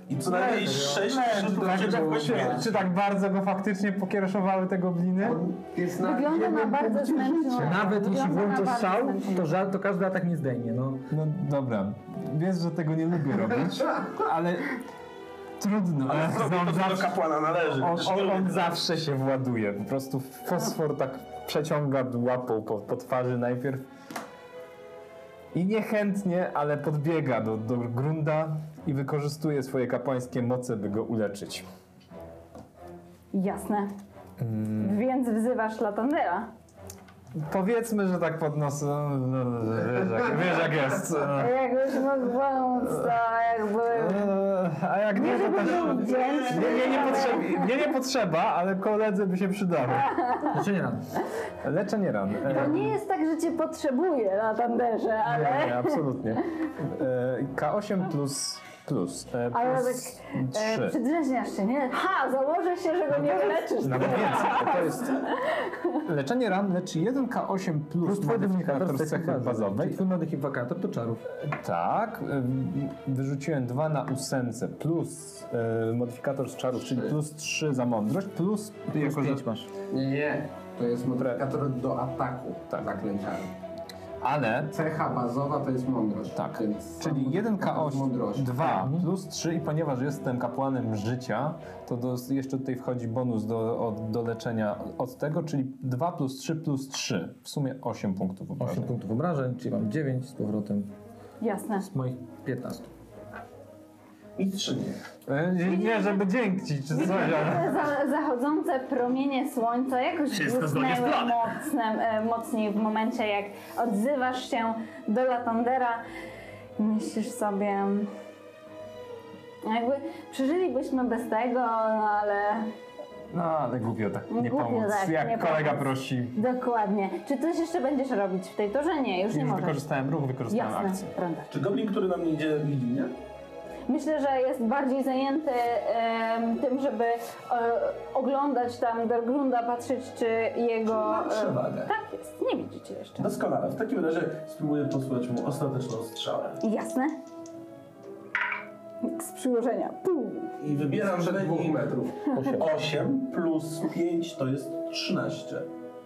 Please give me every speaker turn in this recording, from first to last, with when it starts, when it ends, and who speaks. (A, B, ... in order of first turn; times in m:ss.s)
0:00.1-0:02.7 A
0:00.3-0:02.2 B
0:00.5-0:05.4 C
0:01.5-0:02.6 D
0:05.2-0:07.6 D
0:06.0-0:09.6 E
0:07.6-0:11.1 B
0:11.1-0:14.8 C
0:15.6-0:17.2 C
0:16.1-0:18.8 A
0:17.8-0:23.8 C
0:25.5-0:31.6 C
0:33.3-0:33.9 E
0:34.4-0:35.0 C
0:34.8-0:36.5 E
0:37.3-0:41.6 C
0:41.3-0:44.3 E
0:43.9-0:50.1 C
0:45.1-0:47.7 E
0:45.5-0:46.8 A
0:50.1-0:50.5 E
0:50.5-0:51.1 B
0:51.6-0:53.0 C
0:52.4-0:56.0 E
0:55.3-1:01.0 C
0:59.5-1:06.0 E
1:03.8-1:05.3 C
1:06.0-1:10.0 C
1:08.0-1:11.2 B
1:11.4-1:19.4 C
1:16.8-1:17.2 D
1:18.9-1:19.7 B
1:19.9-1:23.5 D
1:24.2-1:24.7 C
1:24.7-1:28.6 D
1:26.3-1:38.9 C
1:28.6-1:29.1 B
1:38.6-1:40.9 B
1:41.4-1:41.9 E
1:41.9-1:42.9 B
1:44.4-1:45.0 A
1:45.3-1:47.9 C
1:45.6-1:46.2 E
1:46.9-1:56.0 E
1:50.3-1:51.4 B
1:56.8-1:58.1 E
1:59.6-2:02.7 E
2:03.3-2:06.4 C
2:04.3-2:09.8 E
2:09.3-2:11.1 C
2:10.5-2:11.5 E
2:11.5-2:13.1 A
2:13.9-2:23.3 E
2:20.8-2:21.9 A
2:23.2-2:26.6 A
2:26.6-2:27.1 E
2:29.0-2:30.5 E
2:30.6-2:32.0 A
2:30.8-2:32.2 D
2:32.3-2:32.7 B
2:32.5-2:35.7 A